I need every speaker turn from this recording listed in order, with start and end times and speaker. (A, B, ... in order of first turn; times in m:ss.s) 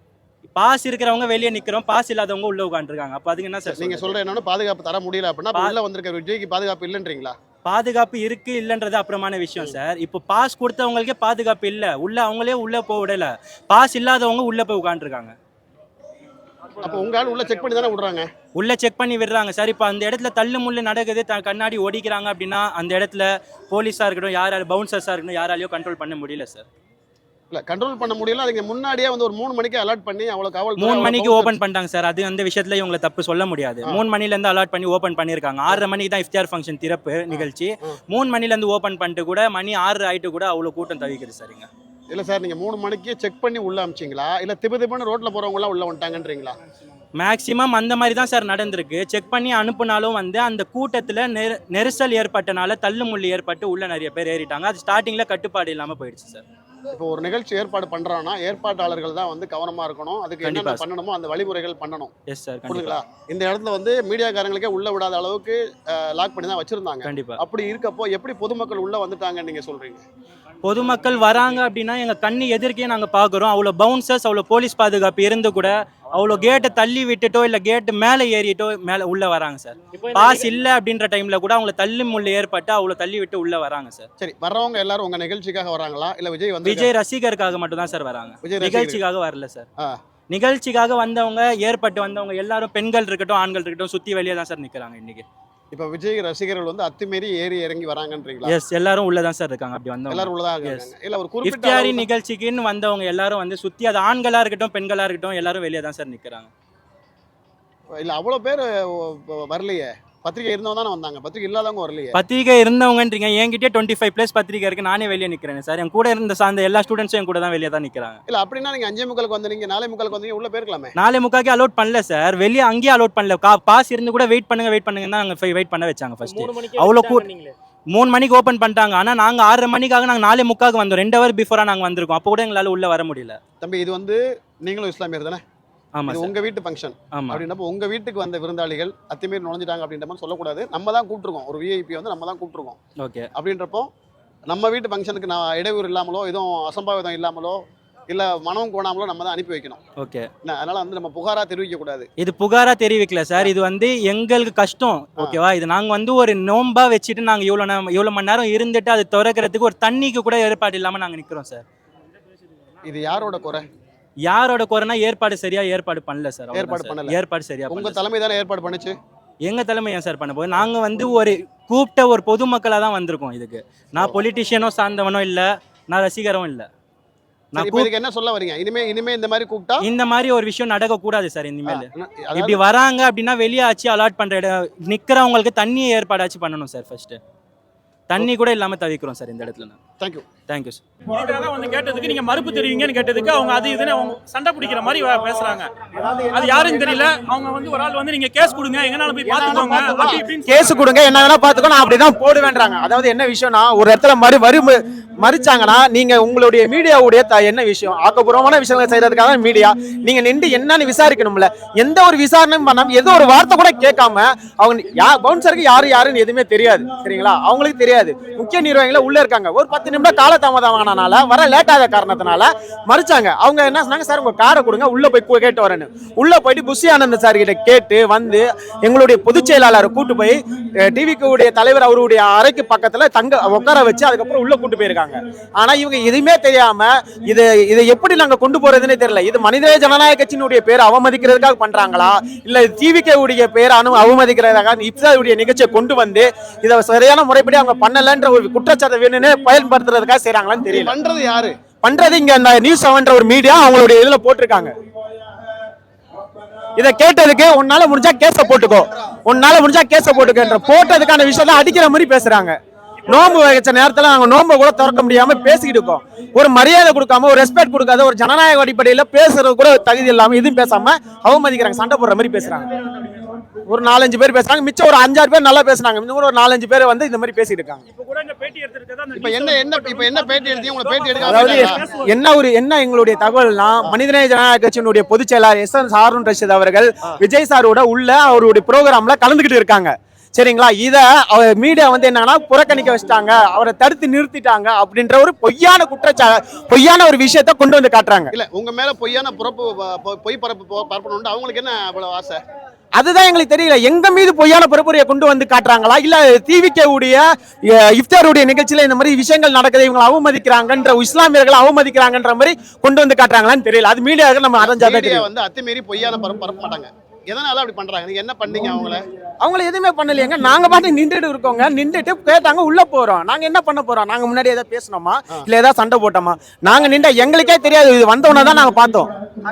0:00.5-0:04.1 A
0:03.6-0:07.4 B
0:07.6-0:15.3 A
0:16.8-0:18.3 B
0:18.5-0:26.6 A
0:27.5-0:31.6 B
0:30.8-0:41.7 A
0:37.3-0:37.9 B
0:42.1-0:46.6 B
0:47.2-0:56.4 A
0:56.9-1:02.1 B
1:00.4-1:00.8 A
1:02.3-1:03.0 A
1:02.7-1:10.0 B
1:07.0-1:07.4 A
1:10.6-1:24.1 A
1:11.0-1:11.4 C
1:19.9-1:20.6 C
1:24.2-1:26.9 B
1:26.6-1:29.6 A
1:28.4-1:29.0 B
1:30.3-1:35.2 A
1:35.7-1:38.5 B
1:38.4-1:40.9 A
1:40.1-1:42.1 B
1:41.4-1:46.5 A
1:47.9-1:52.2 B
1:52.1-1:58.2 A
1:58.3-2:00.9 B
2:01.0-2:07.3 A
2:06.2-2:07.5 C
2:07.9-2:13.4 A
2:13.6-2:15.4 B
2:16.0-2:16.3 A
2:16.1-2:22.8 B
2:17.1-2:17.4 A
2:23.0-2:23.3 A
2:23.3-2:23.9 B
2:24.5-2:29.8 B
2:30.0-2:30.3 A
2:30.4-2:32.1 B
2:32.2-2:41.6 A
2:42.8-2:43.6 B
2:44.2-2:48.0 A
2:46.5-2:47.2 B
2:47.7-2:49.0 B
2:49.4-2:56.7 A
2:57.5-2:57.9 A
2:57.6-2:59.8 B
2:59.8-3:07.2 A
3:01.7-3:02.6 B
3:08.1-3:09.8 A
3:10.0-3:10.3 B
3:10.5-3:10.8 A
3:11.1-3:15.7 D
3:15.9-3:17.1 E
3:16.3-3:20.8 D
3:19.2-4:10.9 E
3:19.3-3:20.2 B
4:10.6-4:11.6 B
4:11.8-4:14.7 E
4:16.8-4:32.7 E
4:32.9-4:33.2 D
4:33.6-4:37.8 E
4:37.9-4:42.1 D
4:39.1-4:41.9 B
4:41.2-4:58.3 E
4:58.3-5:02.4 B
5:03.0-5:15.3 E
5:14.6-5:19.0 B
5:19.4-5:29.1 E